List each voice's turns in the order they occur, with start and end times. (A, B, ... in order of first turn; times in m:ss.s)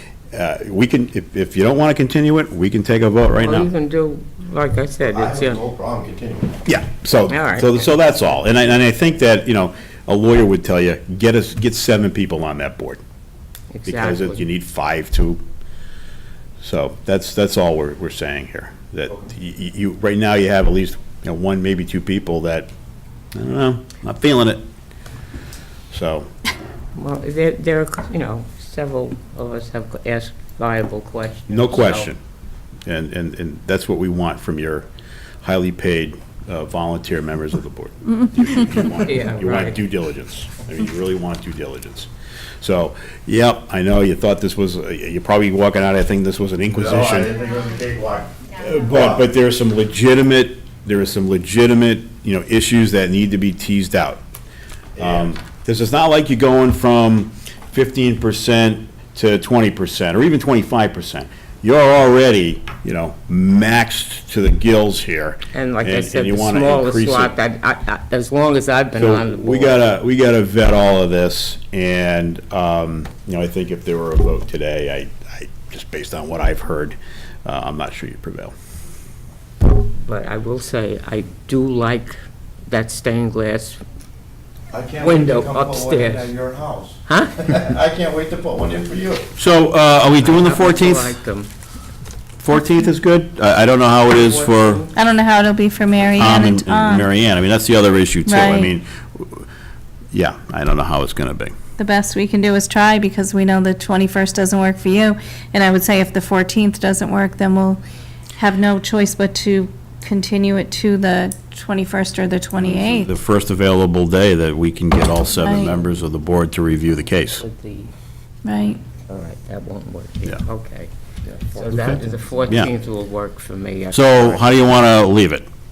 0:00.3-0:03.7 A
0:03.4-0:05.6 B
0:05.1-0:06.5 C
0:06.7-0:13.0 A
0:07.3-0:07.9 B
0:13.7-0:14.4 B
0:13.8-0:15.4 A
0:16.6-0:22.7 A
0:23.3-0:24.6 A
0:25.9-0:26.3 A
0:27.0-0:32.1 B
0:31.5-0:32.2 A
0:32.9-0:34.8 A
0:35.4-0:42.1 A
0:39.0-0:39.8 B
0:42.6-0:47.3 A
0:46.7-0:48.3 C
0:48.6-0:54.2 A
0:48.9-0:49.2 C
0:55.0-0:55.3 C
0:55.0-1:07.3 A
1:05.5-1:09.8 B
1:08.9-1:18.5 A
1:19.8-1:23.8 B
1:24.7-1:29.3 C
1:25.0-1:26.3 B
1:27.1-1:27.6 B
1:29.4-1:31.1 A
1:30.2-1:31.5 B
1:32.4-1:34.8 A
1:34.2-1:34.7 B
1:34.9-1:37.1 D
1:36.2-1:39.4 A
1:38.2-1:38.7 D
1:40.1-1:41.5 A
1:41.8-1:47.8 D
1:48.4-1:53.1 D
1:52.6-1:57.4 A
1:55.3-1:55.8 D
1:57.4-1:57.9 B
1:58.4-1:58.8 D
1:59.0-2:00.9 B
2:01.2-2:02.6 C
2:01.6-2:04.7 B
2:01.7-2:02.7 A
2:03.9-2:05.4 A